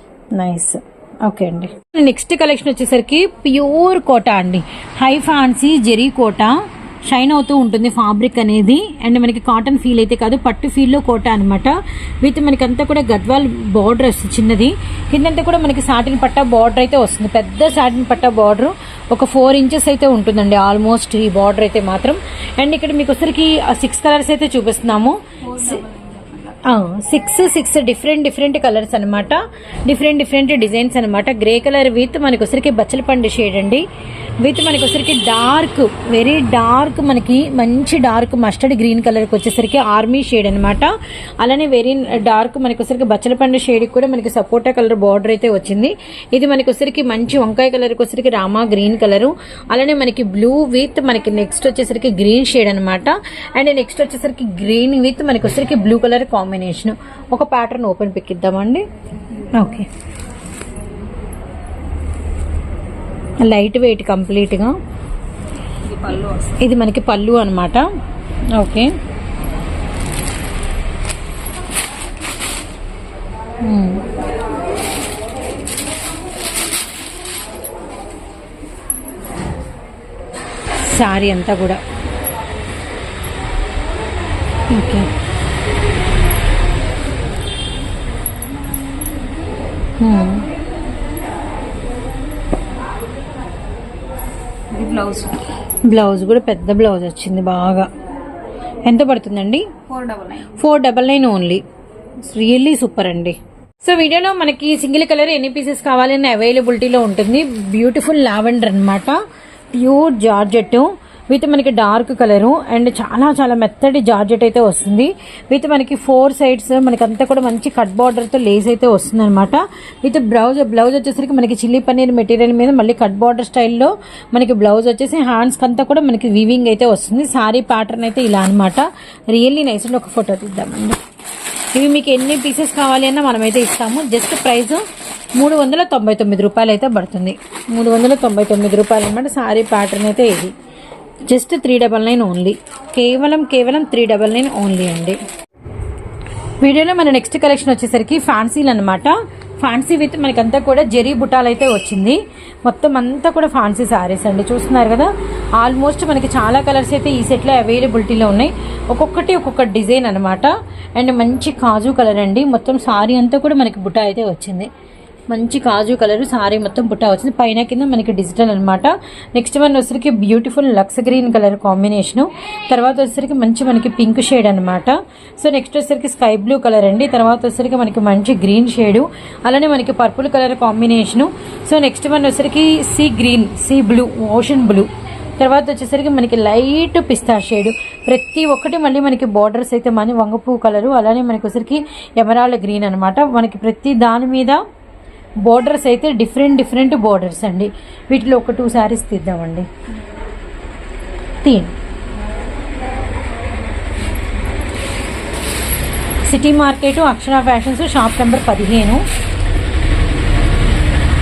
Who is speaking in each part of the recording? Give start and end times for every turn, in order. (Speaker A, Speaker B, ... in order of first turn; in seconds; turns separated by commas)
Speaker A: 0.3-25.8, Speaker B: 25.4-26.6, Speaker A: 26.6-33.8, Speaker A: 34.4-40.9, Speaker A: 41.4-58.8, Speaker B: 59.3-59.6, Speaker A: 59.5-59.9, Speaker A: 63.4-64.7, Speaker B: 65.8-66.6, Speaker A: 66.6-67.8, Speaker A: 68.5-68.9, Speaker A: 73.6-74.0, Speaker A: 80.8-81.8, Speaker A: 84.7-85.1, Speaker A: 90.0-90.5, Speaker B: 94.7-95.4, Speaker A: 95.9-97.9, Speaker A: 98.8-99.7, Speaker B: 99.9-100.5, Speaker A: 100.6-101.6, Speaker A: 102.2-109.2, Speaker A: 109.7-131.0, Speaker A: 131.7-134.8, Speaker A: 135.4-140.5, Speaker A: 141.3-145.2, Speaker A: 146.6-164.7, Speaker A: 165.3-184.9, Speaker A: 185.4-194.6, Speaker A: 195.4-199.7, Speaker A: 201.4-201.7, Speaker A: 206.2-209.0